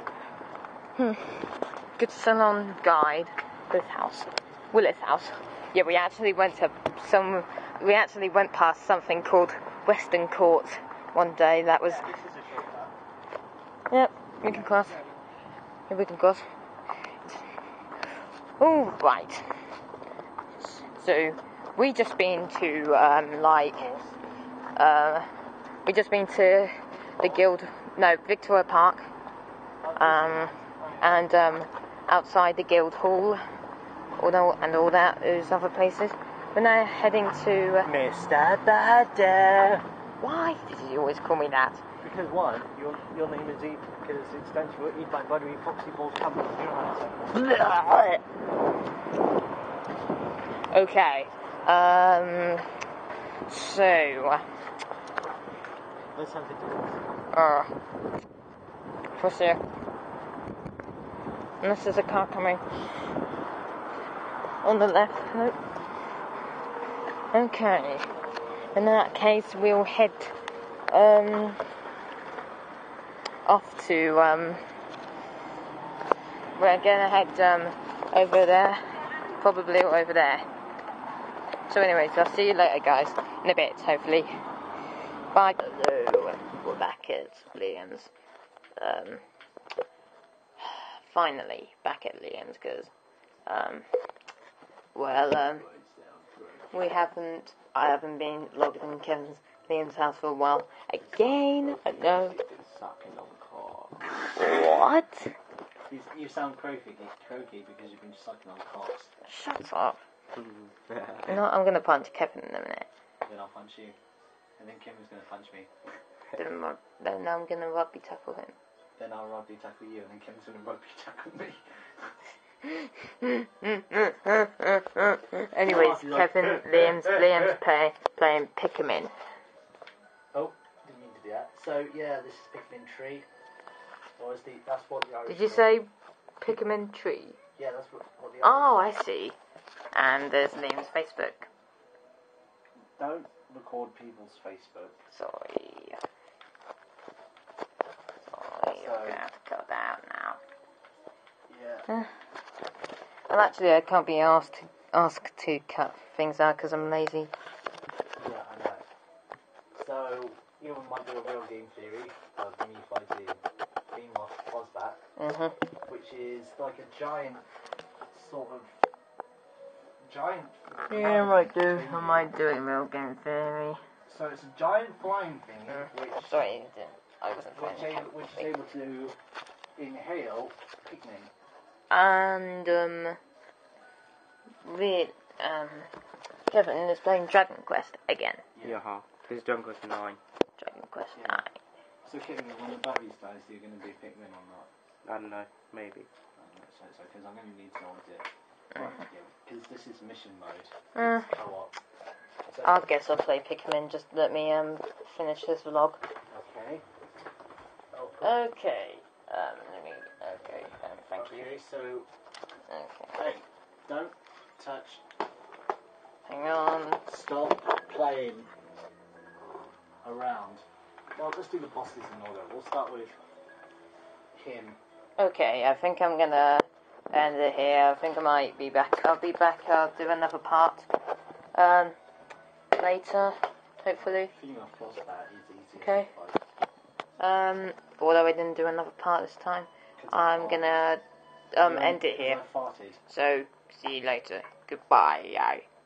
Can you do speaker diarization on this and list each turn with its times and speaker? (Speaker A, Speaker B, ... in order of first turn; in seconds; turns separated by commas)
Speaker A: 1.0-12.1, Speaker B: 11.8-12.9, Speaker A: 13.9-15.0, Speaker B: 14.4-15.2, Speaker A: 15.9-16.4, Speaker A: 18.6-19.5, Speaker A: 20.6-23.9, Speaker B: 23.5-24.2, Speaker A: 24.8-25.3, Speaker A: 25.8-29.1, Speaker B: 27.2-27.5, Speaker B: 29.8-31.3, Speaker A: 30.0-33.4, Speaker A: 34.1-37.9, Speaker B: 37.8-39.8, Speaker A: 40.2-41.8, Speaker B: 42.0-47.3, Speaker A: 47.3-48.2, Speaker A: 50.7-52.7, Speaker A: 53.5-54.4, Speaker B: 56.1-57.0, Speaker A: 57.3-57.7, Speaker A: 59.1-59.6, Speaker A: 61.6-62.6, Speaker A: 64.6-65.6, Speaker A: 67.3-68.1, Speaker A: 68.7-70.3, Speaker A: 70.9-71.6, Speaker A: 73.5-74.6, Speaker A: 76.5-80.4, Speaker A: 81.7-84.3, Speaker A: 85.3-88.1, Speaker A: 88.8-89.2, Speaker A: 90.6-92.9, Speaker A: 93.5-93.8, Speaker A: 94.9-95.7, Speaker B: 95.2-96.7, Speaker A: 96.7-102.4, Speaker B: 101.4-102.6, Speaker C: 102.6-104.1, Speaker A: 104.4-105.3, Speaker B: 105.9-109.1, Speaker A: 109.2-110.0, Speaker A: 111.2-112.9, Speaker B: 113.2-114.0, Speaker B: 114.6-115.7, Speaker A: 116.3-118.5, Speaker B: 119.0-121.6, Speaker A: 122.7-129.1, Speaker B: 125.6-127.5, Speaker B: 130.3-133.2, Speaker B: 134.2-135.7, Speaker A: 135.3-135.9, Speaker A: 136.4-137.4, Speaker B: 137.6-138.7, Speaker A: 138.4-139.4, Speaker A: 139.9-141.5, Speaker B: 143.0-145.0, Speaker A: 145.1-146.0, Speaker A: 148.3-150.4, Speaker B: 148.7-149.2, Speaker B: 151.5-151.9, Speaker A: 153.3-157.3, Speaker B: 158.2-158.8, Speaker B: 159.7-163.4, Speaker B: 163.9-165.0, Speaker A: 165.2-165.6, Speaker B: 165.9-167.4, Speaker B: 168.1-168.7, Speaker B: 170.0-172.3, Speaker A: 170.9-173.8, Speaker B: 174.1-176.4, Speaker A: 175.7-178.5, Speaker B: 177.5-179.2, Speaker B: 179.8-181.3, Speaker A: 181.9-183.2, Speaker A: 184.6-185.9, Speaker A: 186.5-188.4, Speaker B: 188.6-188.8, Speaker C: 188.6-190.2, Speaker A: 190.6-191.6, Speaker B: 191.1-191.4, Speaker B: 192.1-194.7, Speaker C: 195.0-196.1, Speaker B: 196.3-201.8, Speaker A: 200.9-201.3, Speaker B: 202.5-202.8, Speaker A: 202.6-206.0, Speaker B: 206.3-206.8, Speaker B: 207.9-208.3, Speaker A: 208.2-211.6, Speaker B: 211.1-212.1, Speaker A: 212.7-213.2, Speaker B: 213.1-215.0, Speaker A: 216.2-217.0, Speaker B: 217.1-218.5, Speaker B: 220.0-220.6, Speaker B: 221.1-223.1, Speaker B: 224.3-224.8, Speaker A: 225.2-230.9, Speaker A: 231.5-231.9, Speaker A: 232.7-234.3, Speaker B: 234.1-236.4, Speaker A: 235.8-236.1, Speaker A: 237.2-241.0, Speaker B: 240.0-240.8, Speaker A: 241.5-242.4, Speaker B: 241.6-243.0, Speaker A: 243.1-245.6